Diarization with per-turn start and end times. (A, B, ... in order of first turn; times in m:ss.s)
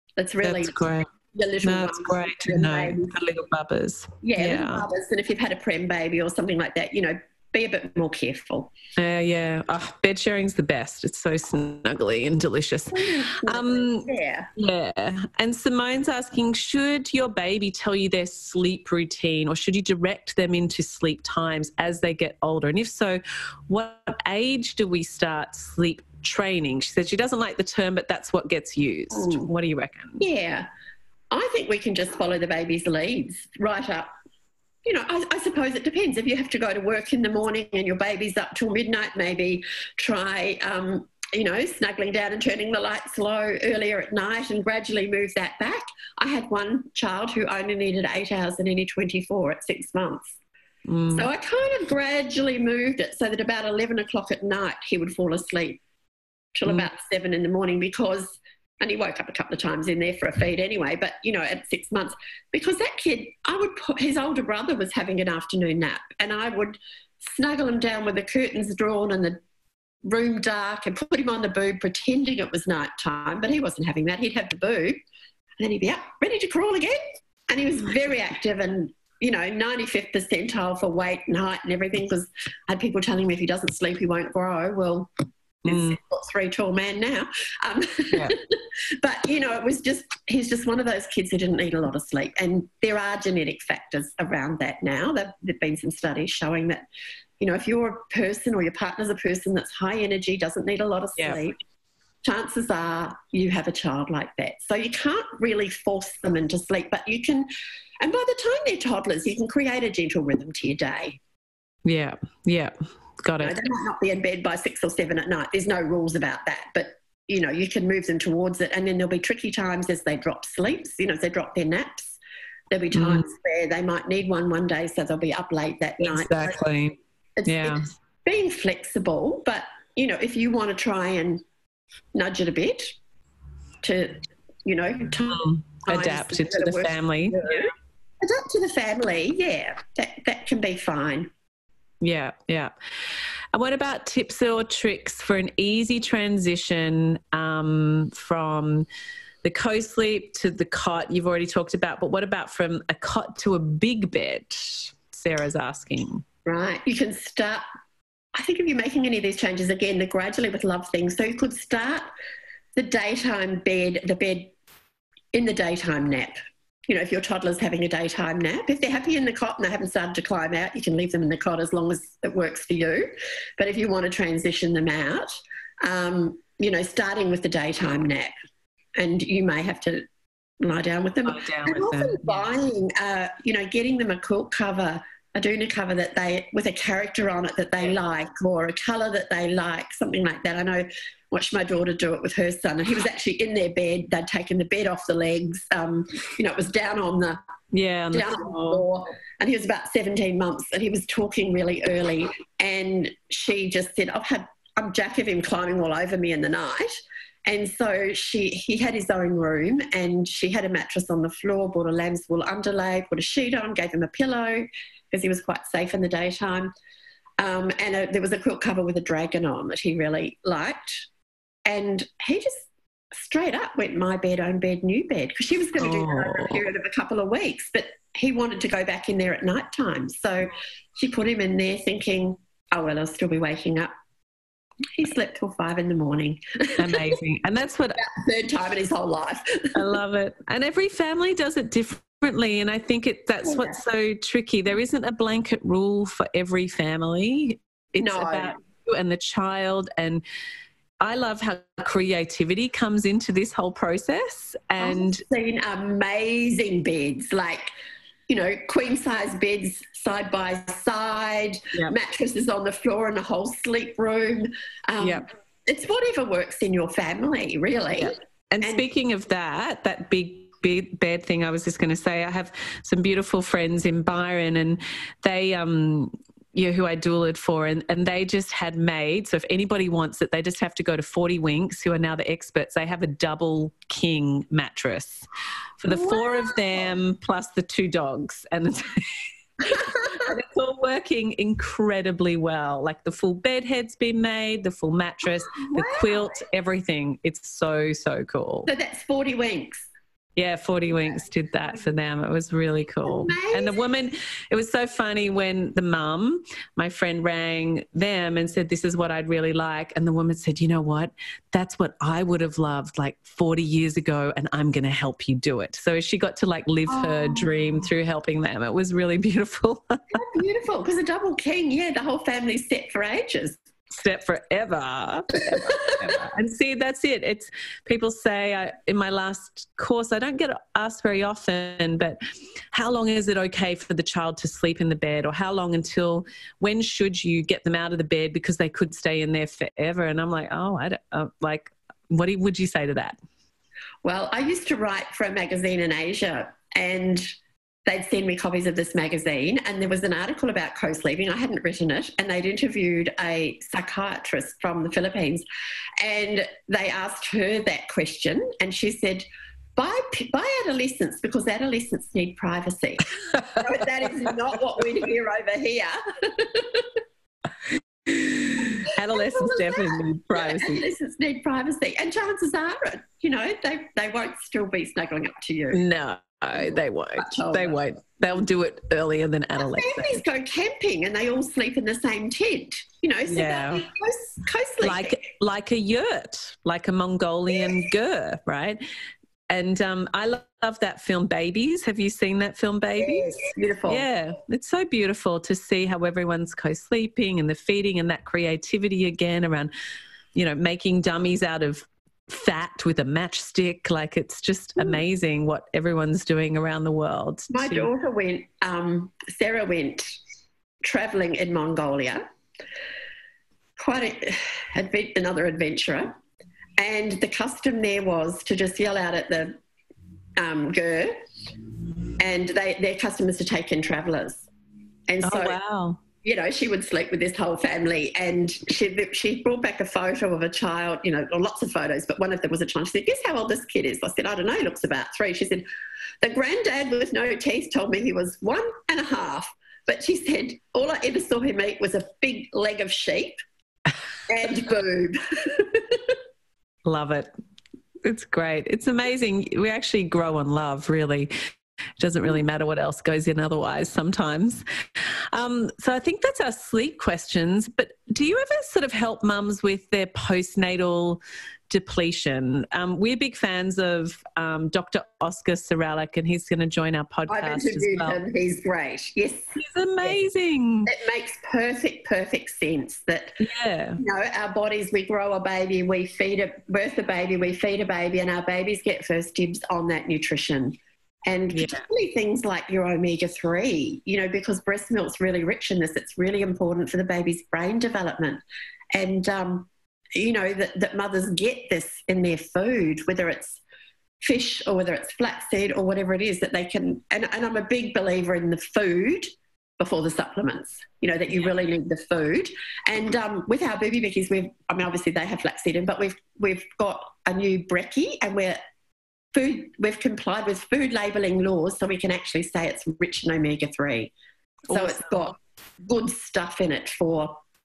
0:00.2-0:00.8 A
0:00.4-0:01.1 B
0:01.3-0:03.1 A
0:01.6-0:04.9 B
0:04.2-0:08.7 A
0:09.0-0:30.2 B
0:12.9-0:14.5 A
0:29.1-0:29.5 A
0:30.2-0:30.7 A
0:31.3-0:34.1 A
0:34.8-0:50.4 A
0:50.9-0:51.3 B
0:51.1-0:55.8 A
0:56.6-1:09.4 A
1:10.0-1:15.0 A
1:15.6-1:25.1 A
1:25.6-1:36.8 A
1:25.7-1:26.0 B
1:37.4-1:41.6 A
1:42.2-1:47.5 A
1:48.0-1:51.2 A
1:51.8-1:53.6 B
1:53.4-2:02.2 A
2:02.7-2:06.6 A
2:02.9-2:03.3 B
2:06.0-2:07.9 B
2:07.4-2:11.4 A
2:12.2-2:13.0 A
2:13.8-2:21.3 A
2:15.3-2:17.7 B
2:22.0-2:22.7 B
2:23.5-2:28.9 B
2:29.4-2:36.2 B
2:36.5-2:37.6 A
2:38.4-2:42.1 A
2:42.8-2:44.5 A
2:45.3-2:46.4 A
2:46.9-2:58.3 A
2:59.0-3:00.1 A
3:00.6-3:17.4 A
3:01.2-3:02.5 B
3:17.7-3:18.8 B
3:18.1-3:36.7 A
3:37.4-3:41.1 A
3:41.7-3:53.9 A
3:45.8-3:46.6 B
3:55.0-3:57.2 A
3:56.8-3:58.0 B
3:58.0-3:59.8 A
3:59.8-4:10.2 B
4:03.4-4:03.8 A
4:08.0-4:08.6 A
4:11.0-4:15.2 B
4:14.8-4:17.7 A
4:18.3-4:28.8 A
4:25.0-4:25.2 B
4:28.0-4:45.3 B
4:45.8-4:58.7 B
4:45.9-4:46.9 A
4:49.7-4:50.3 A
4:55.6-4:56.4 A
4:58.7-4:59.9 A
5:00.4-5:20.1 B
5:03.0-5:03.8 A
5:16.9-5:17.5 A
5:20.1-5:23.6 A
5:23.9-5:32.2 B
5:25.6-5:25.9 A
5:32.7-5:43.2 B
5:44.0-5:47.3 A
5:47.9-5:55.4 A
5:56.0-6:06.9 A
6:08.8-6:10.8 B
6:08.8-6:15.8 A
6:15.7-6:20.2 B
6:16.5-6:17.8 A
6:19.6-6:25.2 A
6:23.3-6:23.8 B
6:24.8-6:28.8 B
6:29.5-6:39.7 B
6:33.0-6:34.0 A
6:40.4-6:47.9 B
6:47.5-6:50.2 A
6:50.8-6:52.2 A
6:53.8-6:56.2 A
6:56.8-6:59.6 A
7:00.4-7:01.2 A
7:02.2-7:04.5 A
7:05.1-7:05.6 A
7:05.2-7:06.0 B
7:06.2-7:15.7 A
7:16.2-7:23.4 A
7:24.3-7:26.2 A
7:26.8-7:27.3 B
7:28.0-7:31.3 B
7:32.0-7:34.6 B
7:35.3-7:48.2 B
7:47.3-7:50.2 A
7:49.6-7:50.9 B
7:50.8-7:53.4 A
7:53.4-7:54.0 B
7:54.0-8:08.4 A
8:01.5-8:01.8 B
8:08.9-8:13.6 A
8:14.2-8:19.3 A
8:19.8-8:28.6 A
8:29.3-8:34.1 A
8:34.7-8:35.2 B
8:34.7-8:37.4 A